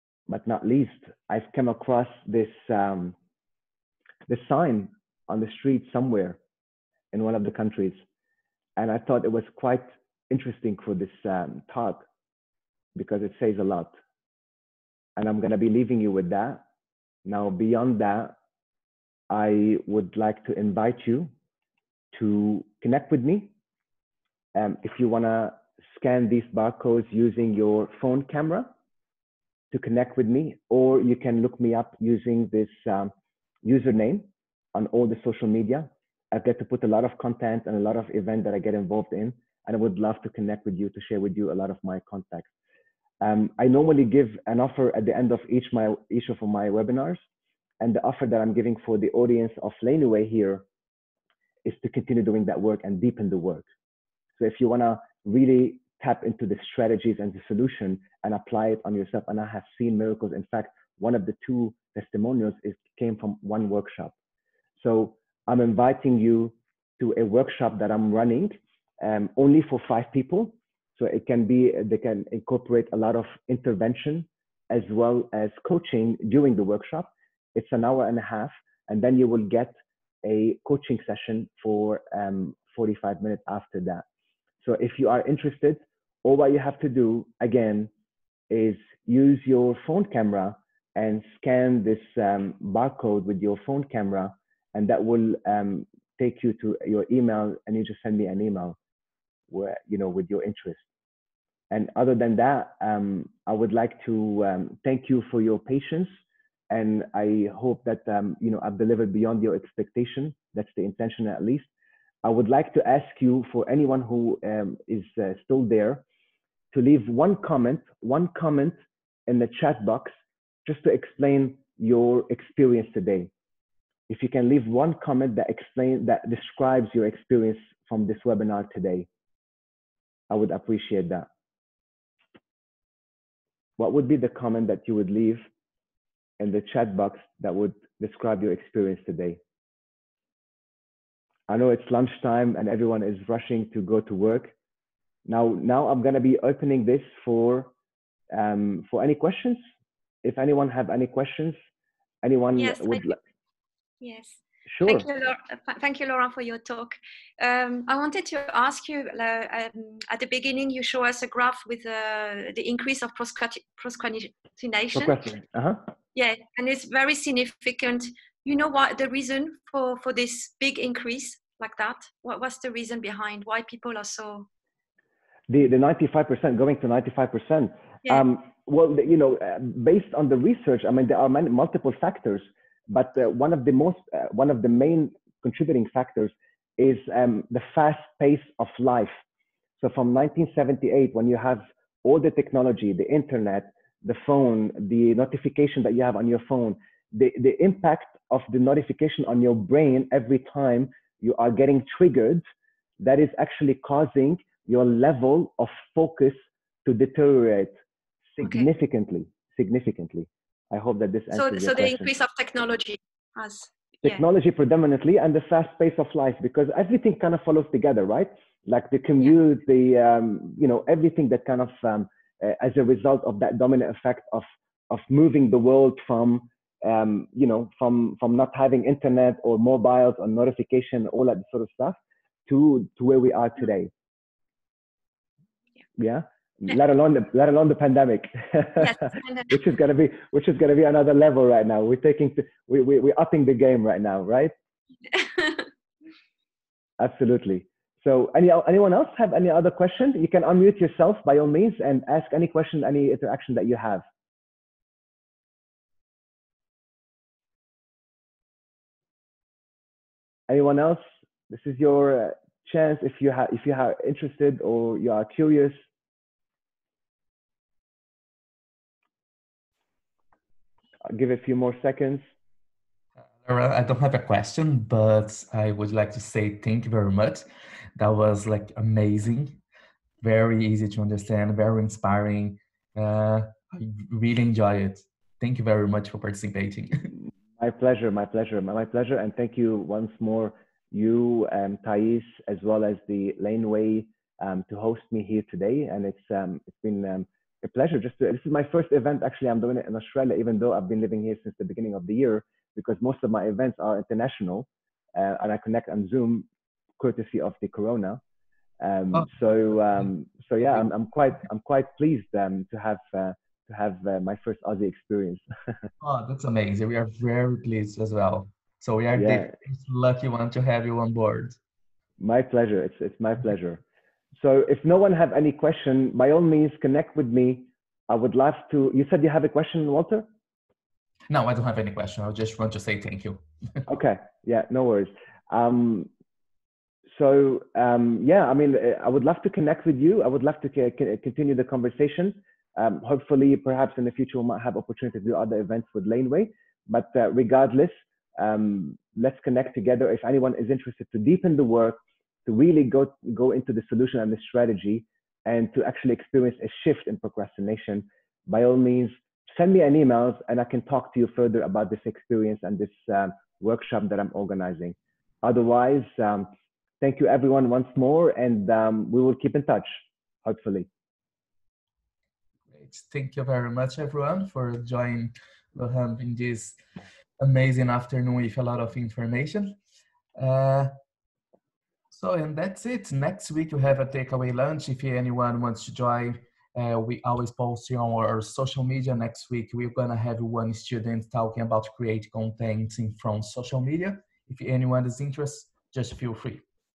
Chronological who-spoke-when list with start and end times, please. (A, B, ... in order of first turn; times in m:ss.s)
0:00.3-0:03.2 A
0:04.3-0:06.4 A
0:07.1-0:08.0 A
0:08.8-0:12.0 A
0:13.0-0:14.0 A
0:15.2-0:16.6 A
0:17.2-0:18.4 A
0:19.3-0:21.3 A
0:22.1-0:23.5 A
0:24.6-0:28.7 A
0:29.7-0:42.5 A
0:43.2-0:47.2 A
0:47.8-0:50.6 A
0:51.6-0:53.7 A
0:54.4-1:04.1 A
1:04.8-1:24.0 A
1:24.6-1:27.9 A
1:28.5-1:38.8 A
1:39.5-1:40.8 A
1:41.7-1:46.1 A
1:46.7-1:51.7 A
1:52.2-1:56.0 A
1:56.7-2:00.1 A
2:00.6-2:03.3 A
2:04.1-2:09.1 A
2:10.3-2:11.3 A
2:13.8-2:15.5 A
2:16.4-2:19.4 A
2:21.5-2:24.5 A
2:25.3-2:27.7 A
2:28.3-2:29.6 A
2:30.2-2:31.6 A
2:32.2-2:33.2 A
2:32.6-2:33.2 B
2:34.0-2:45.2 B
2:34.7-2:35.1 A
2:44.9-2:45.9 A
2:46.2-2:54.5 B
2:55.5-3:09.2 A
3:09.8-3:22.4 A
3:23.0-3:27.8 A
3:28.4-3:32.1 A
3:28.4-3:28.7 B
3:31.3-3:34.2 B
3:34.0-3:53.9 A
3:56.0-4:04.5 A
3:58.8-3:59.5 B
4:05.1-4:05.7 B
4:07.0-4:14.0 A
4:20.5-4:25.8 A
4:31.1-4:32.3 A
4:33.3-4:37.4 C
4:38.0-4:39.6 C
4:40.2-4:47.1 C
4:47.6-5:06.5 A
5:07.0-5:08.2 A
5:08.8-5:15.4 A
5:16.0-5:21.6 C
5:19.2-5:19.5 A
5:22.2-5:23.8 A
5:24.4-5:30.3 A
5:31.3-5:33.4 C
5:33.9-5:36.1 A
5:37.1-6:06.5 A
6:07.0-6:10.9 A
6:12.7-6:16.8 C
6:17.4-6:19.8 C
6:20.4-6:20.9 C
6:22.1-6:36.6 C